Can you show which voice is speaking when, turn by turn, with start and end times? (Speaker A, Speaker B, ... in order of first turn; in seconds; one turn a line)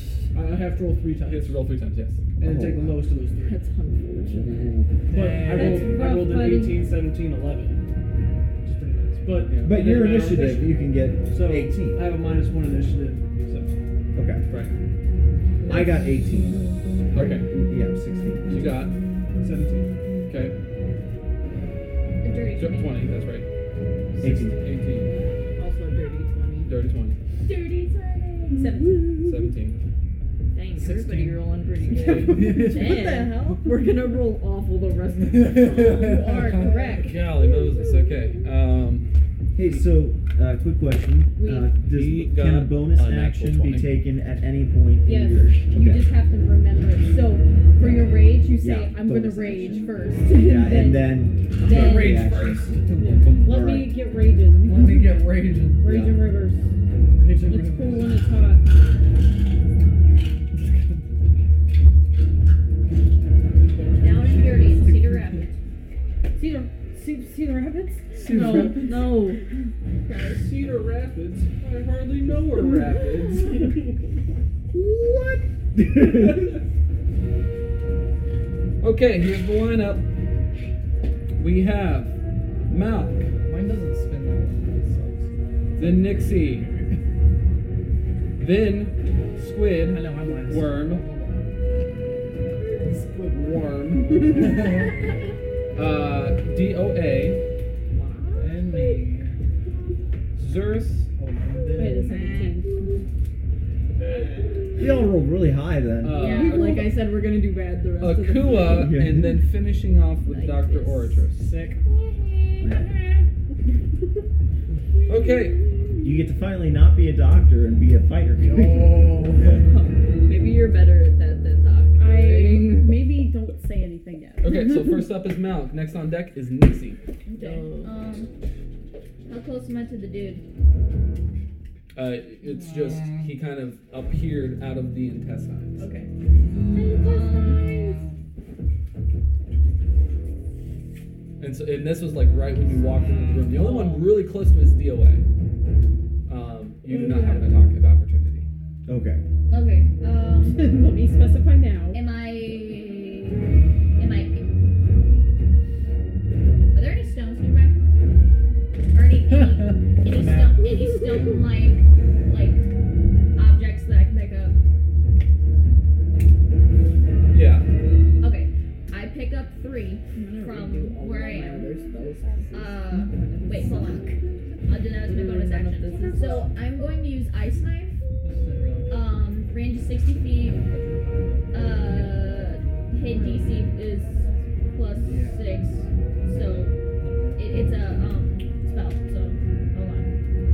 Speaker A: 0.3-1.6
Speaker B: 1.2-2.2
Speaker A: 2.4-3.6
Speaker C: 2.4-3.1
Speaker D: 3.4-4.7
Speaker C: 4.2-4.9
Speaker E: 5.1-6.2
Speaker A: 5.1-7.8
Speaker F: 5.6-6.8
Speaker A: 8.6-13.8
Speaker B: 9.4-9.8
Speaker C: 9.6-12.1
Speaker C: 14.2-14.4
Speaker C: 15.7-18.8
Speaker B: 17.1-17.5
Speaker B: 18.5-18.9
Speaker A: 19.4-19.9
Speaker B: 20.3-20.6
Speaker G: 22.2-23.1
Speaker B: 22.6-23.5
Speaker B: 24.2-25.1
Speaker C: 24.2-24.6
Speaker D: 25.1-26.7
Speaker B: 26.7-27.2
Speaker G: 27.4-28.8
Speaker F: 28.6-29.2
Speaker B: 29.2-29.8
Speaker D: 30.5-36.1
Speaker E: 30.8-31.3
Speaker B: 31.9-32.5
Speaker E: 32.1-33.1
Speaker F: 33.2-33.6
Speaker E: 35.2-36.7
Speaker F: 35.8-37.3
Speaker B: 37.0-39.1
Speaker C: 39.5-46.1
Speaker F: 41.4-41.7
Speaker B: 41.8-44.0
Speaker F: 45.0-52.3
Speaker C: 47.8-54.0
Speaker B: 51.7-52.6
Speaker E: 52.8-53.5
Speaker F: 53.0-55.2
Speaker B: 53.2-53.5
Speaker E: 54.6-56.0
Speaker F: 55.8-56.7
Speaker C: 55.8-56.3
Speaker E: 57.2-58.2
Speaker F: 57.4-58.6
Speaker E: 63.6-65.4
Speaker G: 64.0-65.6
Speaker F: 66.4-68.7
Speaker E: 68.1-69.2
Speaker D: 68.3-69.4
Speaker G: 70.0-70.5
Speaker A: 70.2-74.0
Speaker C: 74.7-76.5
Speaker B: 78.8-80.1
Speaker B: 81.4-82.2
Speaker B: 82.7-83.3
Speaker E: 83.4-87.0
Speaker B: 85.8-86.7
Speaker B: 88.4-91.0
Speaker E: 89.8-91.6
Speaker E: 92.2-95.0
Speaker B: 93.3-94.6
Speaker B: 95.8-97.4
Speaker G: 98.0-98.7
Speaker E: 98.3-99.4
Speaker B: 100.3-101.1
Speaker E: 101.2-102.2
Speaker F: 101.8-102.8
Speaker D: 101.8-103.0
Speaker C: 104.8-106.4
Speaker B: 106.0-106.9
Speaker D: 106.1-108.9
Speaker F: 106.5-106.9
Speaker B: 108.0-111.4
Speaker C: 108.7-109.4
Speaker D: 110.2-111.3
Speaker A: 111.4-111.7
Speaker E: 111.5-111.8
Speaker G: 111.9-113.2
Speaker C: 112.6-112.9
Speaker B: 115.1-115.6
Speaker C: 116.0-119.7
Speaker E: 118.4-119.5
Speaker D: 119.6-123.1
Speaker F: 122.0-125.1
Speaker B: 124.4-127.0
Speaker G: 127.3-128.3
Speaker D: 127.3-128.0
Speaker G: 129.3-130.4
Speaker B: 131.9-135.9
Speaker G: 135.8-136.1
Speaker D: 136.7-137.2
Speaker G: 136.7-138.0
Speaker F: 136.8-137.8
Speaker B: 141.4-145.2
Speaker B: 146.3-148.5
Speaker F: 146.9-147.6
Speaker C: 148.9-149.2
Speaker G: 149.5-150.7
Speaker F: 150.4-152.0
Speaker G: 151.9-153.4
Speaker G: 154.0-154.4
Speaker G: 156.7-157.8
Speaker G: 158.9-162.7
Speaker G: 163.4-164.6
Speaker B: 167.3-167.7
Speaker G: 168.2-171.7
Speaker D: 170.2-174.2
Speaker F: 171.7-172.5
Speaker G: 172.5-178.0
Speaker F: 173.4-175.0
Speaker D: 174.9-176.5
Speaker F: 175.8-176.5
Speaker E: 178.2-179.1
Speaker G: 178.9-180.6
Speaker E: 180.4-183.0
Speaker G: 181.5-186.8
Speaker F: 183.0-185.0
Speaker E: 185.0-185.5
Speaker E: 187.0-187.6
Speaker G: 187.4-190.1